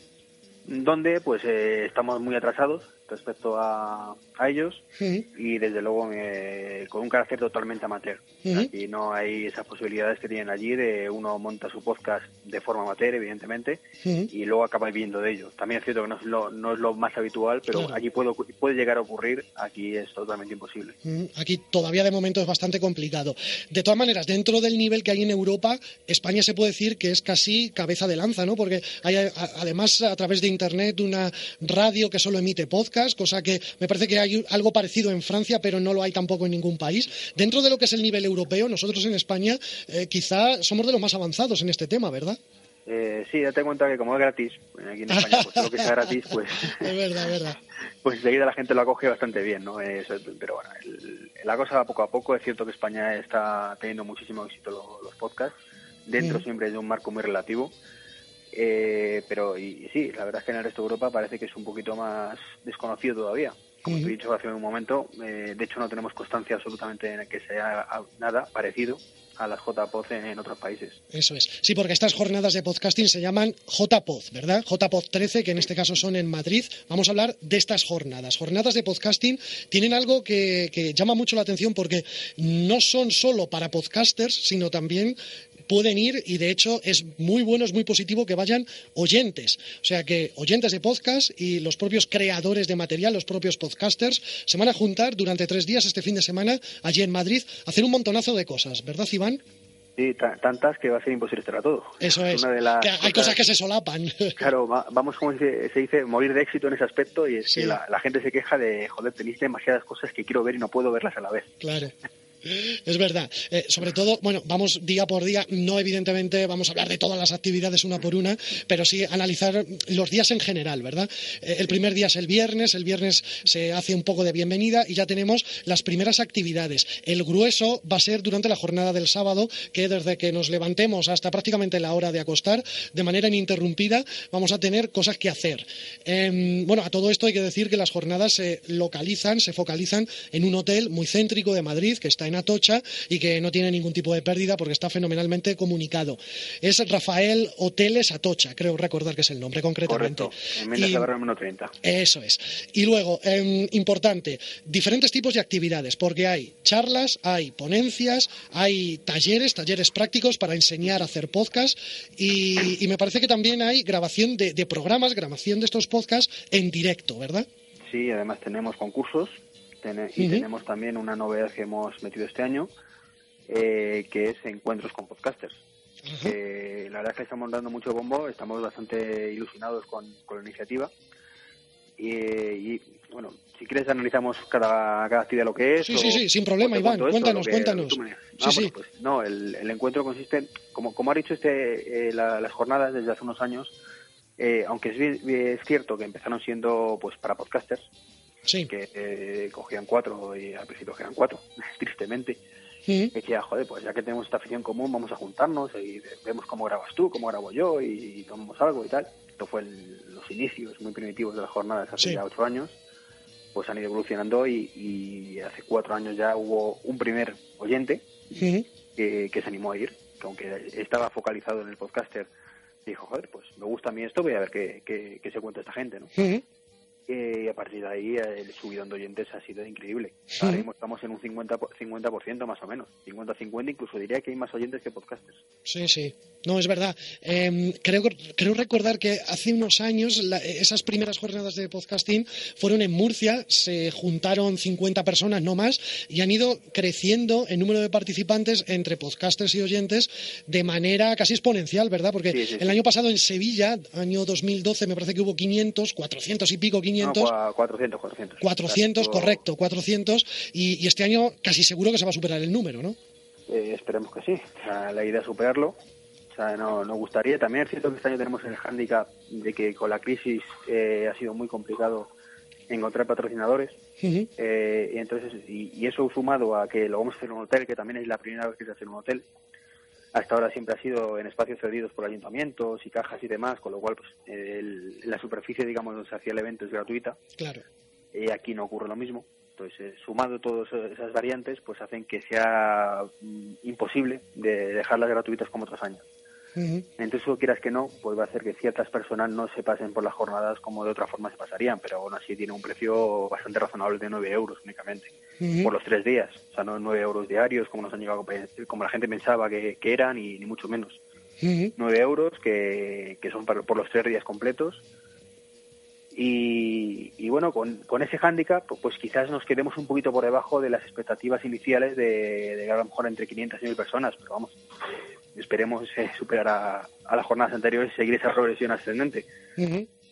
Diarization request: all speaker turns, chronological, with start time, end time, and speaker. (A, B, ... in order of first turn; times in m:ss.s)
0:00.6-0:21.0 A
0:14.0-0:14.3 B
0:21.0-0:42.4 B
0:42.8-0:47.0 A
0:45.1-0:45.4 B
0:46.8-0:47.6 B
0:48.0-0:55.5 A
0:56.0-0:57.7 A
0:58.5-1:11.0 A
1:11.1-1:25.2 B
1:25.7-1:39.4 B
1:40.0-1:43.4 A
1:42.0-1:44.4 B
1:44.4-1:51.5 A
1:47.5-1:47.7 B
1:51.6-1:51.9 B
1:52.4-2:31.1 B
2:29.8-2:31.8 A
2:31.8-2:47.4 B
2:47.8-2:52.7 A
2:50.2-2:50.4 B
2:53.5-2:55.6 A
2:56.1-2:56.3 B
2:56.2-3:00.9 A
3:02.0-3:13.7 A
3:05.8-3:08.7 B
3:14.4-3:17.9 A
3:18.7-3:22.4 A
3:23.1-3:32.8 A
3:33.5-3:38.0 A
3:38.4-3:38.6 B
3:38.9-3:42.3 A
3:42.8-3:46.1 A
3:46.2-3:46.4 B
3:47.1-3:55.4 A
3:55.7-4:17.3 B
4:12.3-4:12.8 A
4:17.0-4:19.4 A
4:18.4-4:23.0 B
4:23.5-4:25.7 A
4:26.3-4:32.1 A
4:32.7-4:33.8 A
4:34.0-4:34.3 B
4:34.4-4:39.2 A
4:40.1-4:47.2 A
4:47.4-4:47.6 B
4:48.1-4:56.0 A
4:56.6-4:56.8 B
4:57.0-5:11.0 A
5:05.4-5:05.7 B
5:11.4-5:11.7 B
5:11.8-5:14.8 A
5:16.1-5:24.6 A
5:25.3-5:29.2 A
5:29.6-5:29.9 B